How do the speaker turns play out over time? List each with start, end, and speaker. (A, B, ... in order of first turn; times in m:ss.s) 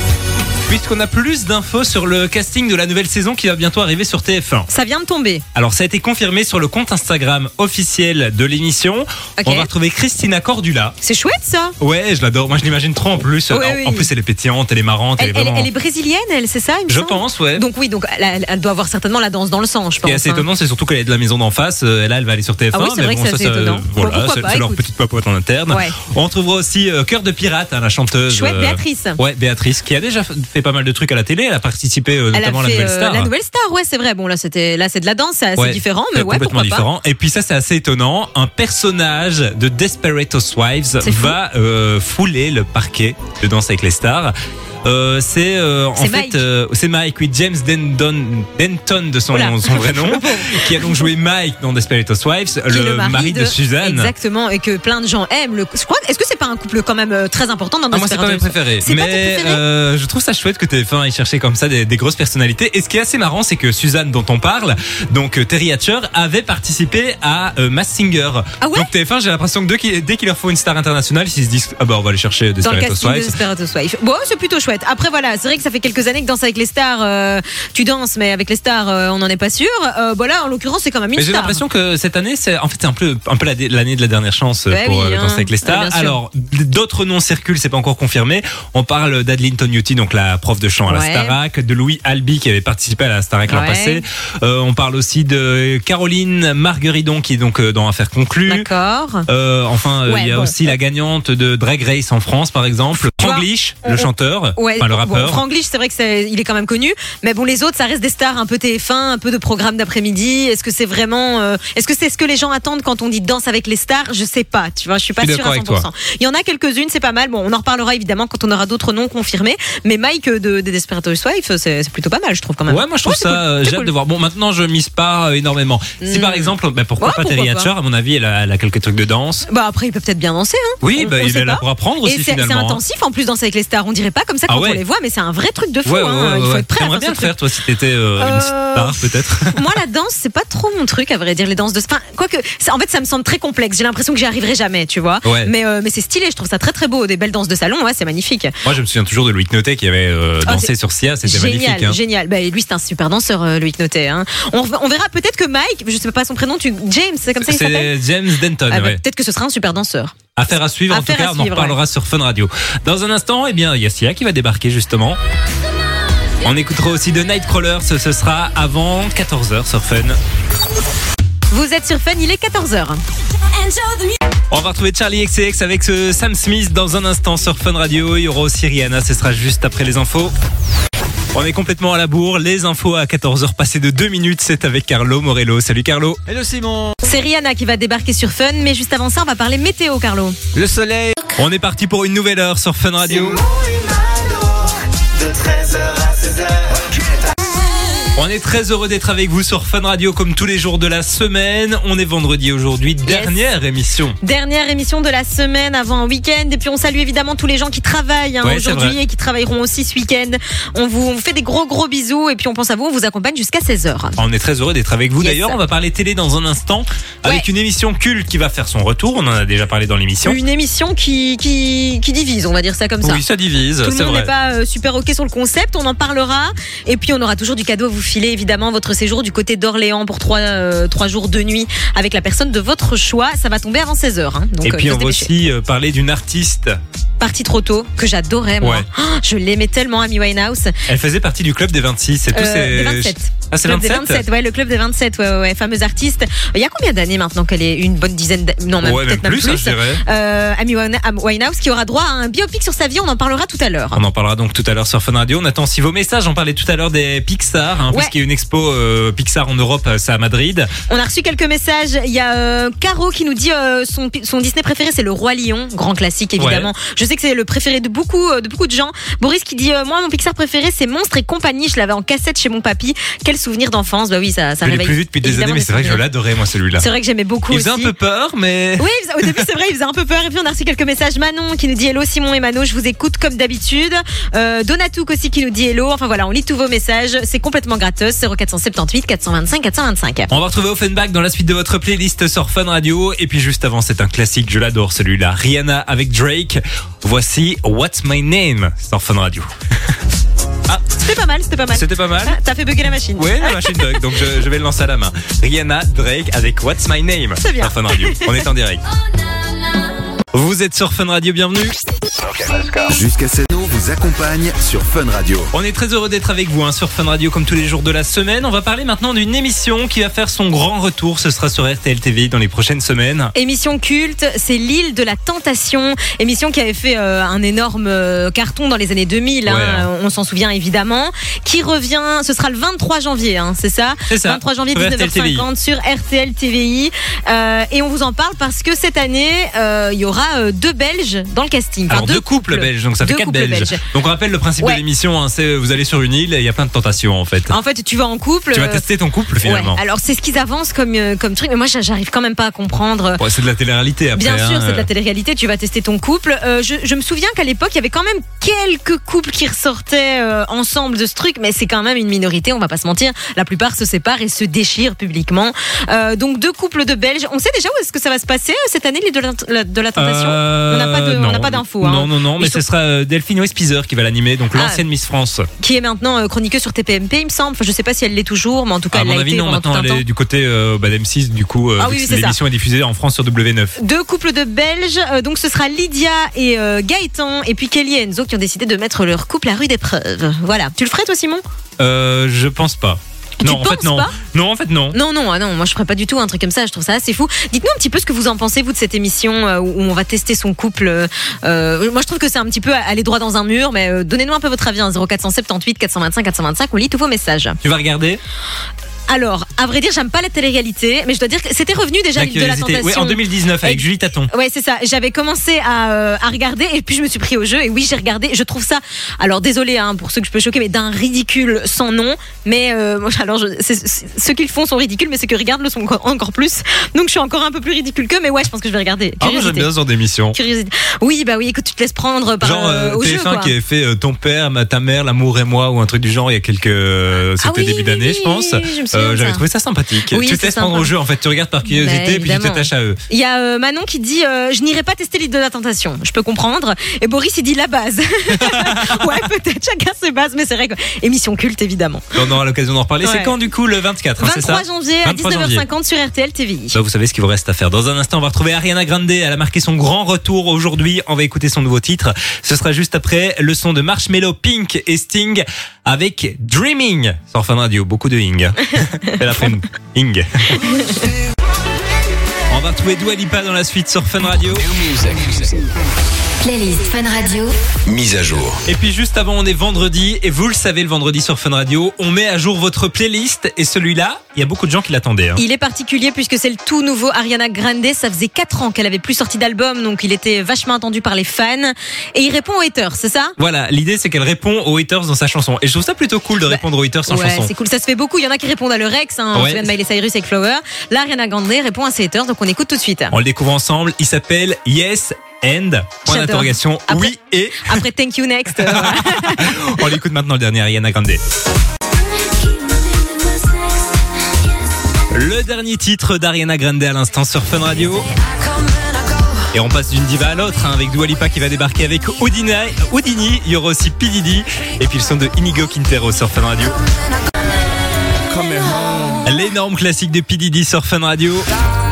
0:00.7-0:04.7 A
0:04.7-0:05.4 B
0:05.6-0:11.0 A
0:09.4-0:09.7 B
0:11.0-0:11.8 B
0:11.8-0:15.7 A
0:13.5-0:14.1 B
0:15.2-0:20.4 B
0:16.9-0:17.6 A
0:20.0-0:33.3 A
0:22.7-0:24.8 B
0:25.7-0:26.0 B
0:28.3-0:29.2 B
0:32.3-0:36.9 B
0:35.6-0:54.1 A
0:41.0-0:41.4 B
0:46.0-0:46.4 B
0:49.3-0:51.1 B
0:52.7-0:59.6 B
0:57.9-1:13.4 A
1:08.6-1:08.9 B
1:12.6-1:21.6 B
1:21.2-1:38.7 A
1:24.7-1:26.2 B
1:30.9-1:31.4 B
1:33.5-1:34.0 B
1:38.5-1:39.3 B
1:39.3-1:45.4 A
1:40.1-1:40.7 B
1:43.0-2:03.9 B
1:55.2-1:55.9 A
2:02.7-2:09.5 A
2:06.0-2:07.7 B
2:09.5-2:17.3 B
2:10.8-2:12.8 A
2:14.5-2:14.8 A
2:15.8-2:19.7 A
2:18.2-2:28.5 B
2:25.2-2:25.5 A
2:28.6-2:32.0 A
2:31.2-2:38.0 B
2:37.4-2:39.0 A
2:38.7-2:40.2 B
2:40.4-2:45.2 A
2:40.9-2:41.8 B
2:46.4-2:50.2 A
2:51.5-2:53.0 B
2:54.5-3:00.3 A
3:01.3-3:06.2 A
3:06.3-3:07.0 C
3:07.0-3:10.4 B
3:10.5-3:11.2 C
3:11.4-3:13.4 A
3:13.3-3:17.1 C
3:18.2-3:24.2 A
3:23.0-3:23.4 B
3:24.2-3:34.2 B
3:28.4-3:29.0 A
3:34.2-3:40.4 A
3:35.2-3:35.6 B
3:40.2-3:43.2 B
3:43.0-3:44.3 A
3:43.8-3:55.3 B
3:54.6-3:56.8 A
3:57.2-4:00.8 B
3:58.6-3:58.9 A
4:00.9-4:04.2 A
4:02.3-4:14.0 B
4:08.8-4:10.0 A
4:13.9-4:20.7 A
4:20.9-4:36.0 B
4:26.4-4:26.7 A
4:34.6-4:36.9 A
4:36.8-4:37.9 B
4:37.5-4:39.4 A
4:38.8-4:50.3 B
4:50.3-5:00.0 A
5:00.9-5:04.1 B
5:01.7-5:02.4 A
5:03.2-5:08.8 A
5:07.4-5:08.5 B
5:10.3-5:11.8 A
5:12.3-5:15.5 D
5:15.5-5:23.3 A
5:23.4-5:43.8 B
5:29.5-5:29.9 A
5:34.1-5:35.5 A
5:41.9-5:47.6 A
5:47.5-5:48.8 B
5:48.5-5:49.8 A
5:49.4-5:53.2 B
5:53.2-5:54.9 A
5:54.2-6:12.6 B
6:10.0-6:15.5 A
6:14.6-6:14.8 B
6:15.6-6:20.0 B
6:18.9-6:23.8 A
6:21.8-6:22.4 B
6:23.8-6:31.4 B
6:31.8-6:35.0 A
6:33.4-6:34.2 B
6:34.9-6:47.6 B
6:47.6-6:48.2 A
6:49.1-7:09.7 B
6:52.2-6:54.3 A
7:09.2-7:10.4 A
7:10.3-7:13.5 B
7:12.4-7:23.0 A
7:17.4-7:19.4 B
7:20.1-7:20.9 B
7:21.7-7:32.2 B
7:28.3-7:29.2 A
7:32.2-7:35.6 A
7:33.0-7:33.3 B
7:34.2-7:36.8 B
7:36.7-7:50.7 A
7:52.5-7:54.6 A
7:54.5-7:55.6 C
7:56.4-7:57.6 E
7:57.9-7:58.6 D
7:58.7-8:05.4 A
8:05.4-8:13.4 B
8:13.4-8:17.5 A
8:16.5-8:23.2 B
8:19.3-8:19.7 A
8:23.1-8:27.8 A
8:26.1-8:29.6 B
8:28.6-8:31.2 A
8:32.5-8:33.9 E
8:35.1-8:38.1 A
8:39.5-8:46.8 A
8:48.3-8:49.2 C
8:49.2-8:51.5 A